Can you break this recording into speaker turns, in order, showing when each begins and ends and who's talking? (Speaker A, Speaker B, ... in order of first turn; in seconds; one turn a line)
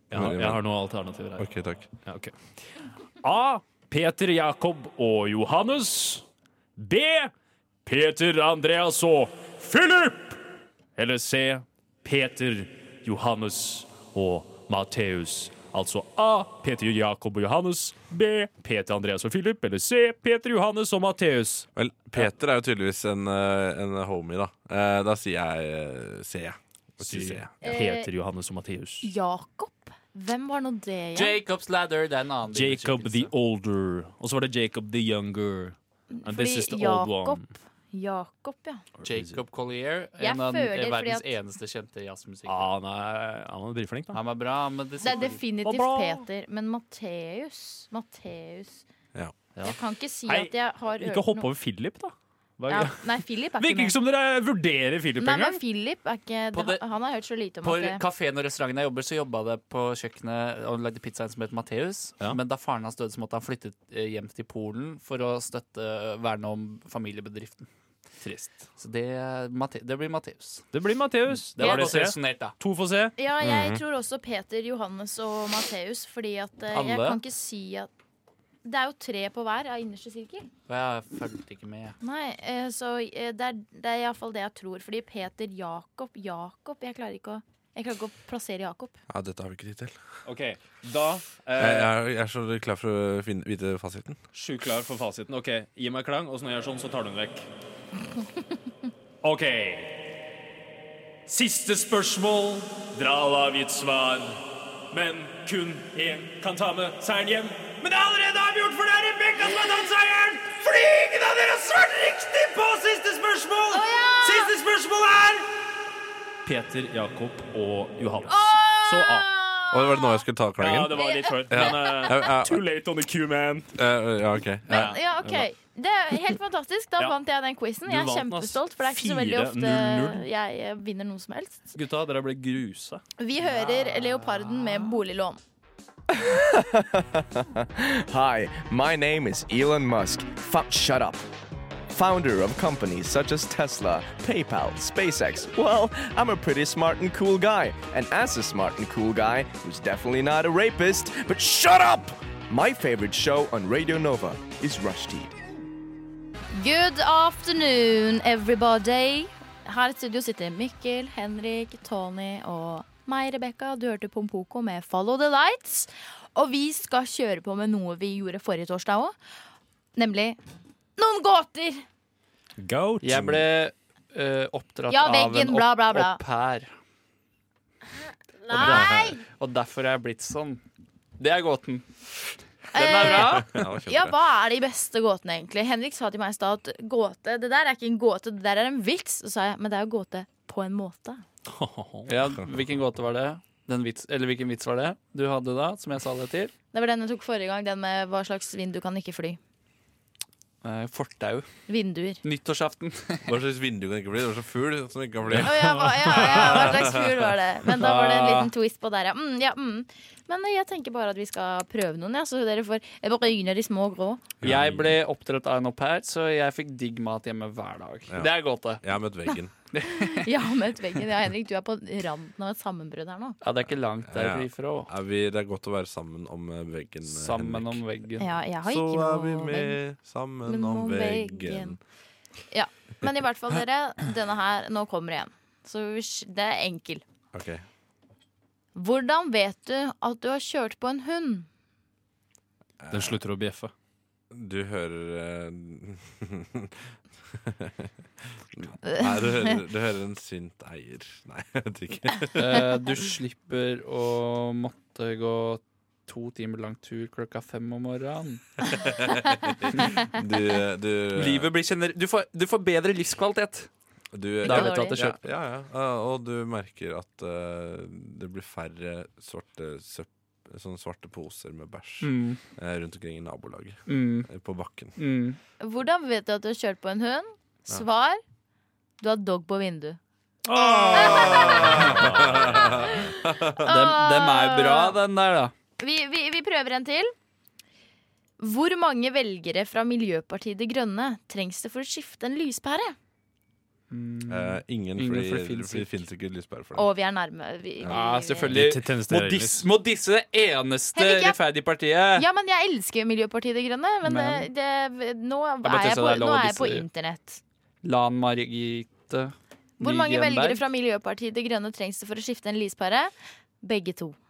Speaker A: 0.1-1.5
Speaker B: 0.1-0.6
Speaker B: 1.4-1.9
Speaker A: 2.0-2.4
Speaker A: 3.2-6.2
Speaker A: 6.8-7.3
Speaker A: 7.8-10.4
Speaker A: 11.0-21.7
Speaker B: 21.8-27.5
Speaker A: 27.0-29.1
Speaker C: 27.6-28.1
Speaker C: 29.0-31.4
Speaker D: 31.1-33.3
Speaker A: 32.5-37.5
Speaker C: 36.1-38.8
Speaker A: 39.0-39.4
Speaker D: 39.0-42.7
Speaker C: 40.2-41.3
Speaker A: 42.5-44.2
Speaker D: 44.1-45.4
Speaker C: 45.0-48.8
Speaker A: 45.6-46.2
Speaker A: 49.5-53.1
Speaker C: 49.6-51.5
Speaker C: 52.7-54.0
Speaker A: 53.6-55.6
Speaker C: 55.2-58.0
Speaker D: 56.5-56.8
Speaker D: 57.6-67.7
Speaker A: 68.2-68.6
Speaker D: 68.8-70.7
Speaker A: 70.7-73.1
Speaker D: 71.6-72.5
Speaker C: 71.6-71.9
Speaker C: 73.2-77.9
Speaker B: 73.4-73.8
Speaker D: 76.7-77.2
Speaker C: 78.6-80.5
Speaker D: 80.7-82.0
Speaker C: 82.0-89.0
Speaker B: 89.1-90.0
Speaker A: 90.3-91.9
Speaker B: 91.6-94.2
Speaker A: 94.3-97.5
Speaker A: 99.2-100.0
Speaker A: 101.3-115.5
Speaker C: 113.7-114.5
Speaker A: 116.5-119.3
Speaker C: 118.3-120.3
Speaker B: 119.7-122.6
Speaker A: 120.6-123.7
Speaker C: 120.9-122.3
Speaker B: 123.8-125.0
Speaker C: 124.7-131.7
Speaker A: 124.7-125.5
Speaker A: 127.8-130.2
Speaker A: 131.7-133.0
Speaker C: 133.2-135.4
Speaker D: 133.4-135.0
Speaker E: 136.1-141.3
Speaker E: 141.9-155.4
Speaker C: 156.5-169.2
Speaker C: 170.0-170.4
Speaker C: 171.0-171.8
Speaker A: 172.6-173.3
Speaker D: 173.0-176.7
Speaker C: 174.9-176.2
Speaker C: 178.4-179.2
Speaker D: 178.5-180.6
Speaker B: 178.5-179.2
Speaker D: 181.2-181.9
Speaker D: 182.7-183.7
Speaker C: 182.7-191.2
Speaker B: 183.0-184.2
Speaker A: 191.5-192.1
Speaker D: 192.1-196.5
Speaker C: 196.7-199.4
Speaker D: 200.6-201.5
Speaker C: 201.7-202.2
Speaker D: 202.2-203.3
Speaker B: 203.2-207.4
Speaker C: 205.4-214.3
Speaker D: 207.8-208.5
Speaker B: 214.4-215.0
Speaker D: 214.4-218.8
Speaker B: 218.1-219.5
Speaker D: 219.7-220.5
Speaker C: 219.9-223.4
Speaker D: 223.4-224.9
Speaker B: 224.0-227.8
Speaker D: 227.1-228.3
Speaker C: 228.2-229.8
Speaker B: 228.6-231.8
Speaker C: 230.5-231.8
Speaker C: 232.5-237.0
Speaker B: 237.3-237.6
Speaker C: 238.8-241.5
Speaker B: 242.8-243.2
Speaker A: 242.9-243.7
Speaker B: 244.3-246.8
Speaker B: 247.3-247.9
Speaker B: 248.5-252.6
Speaker C: 248.8-249.6
Speaker D: 252.4-258.7
Speaker B: 258.7-261.5
Speaker D: 261.2-263.7
Speaker B: 264.1-274.9
Speaker C: 264.4-265.1
Speaker D: 264.4-265.2
Speaker D: 272.0-272.4
Speaker D: 273.9-274.3
Speaker D: 275.0-275.4
Speaker C: 275.6-278.2
Speaker C: 279.0-280.0
Speaker A: 280.5-282.8
Speaker B: 280.5-283.7
Speaker C: 280.9-285.0
Speaker D: 283.6-285.5
Speaker C: 285.8-287.1
Speaker C: 288.4-293.0
Speaker D: 293.9-296.0
Speaker B: 294.3-296.9
Speaker C: 296.8-298.6
Speaker B: 297.8-298.1
Speaker D: 297.9-302.3
Speaker A: 298.5-299.7
Speaker C: 300.9-301.4
Speaker C: 302.2-307.4
Speaker D: 304.0-304.5
Speaker D: 305.6-306.9
Speaker D: 307.8-310.6
Speaker C: 309.8-314.2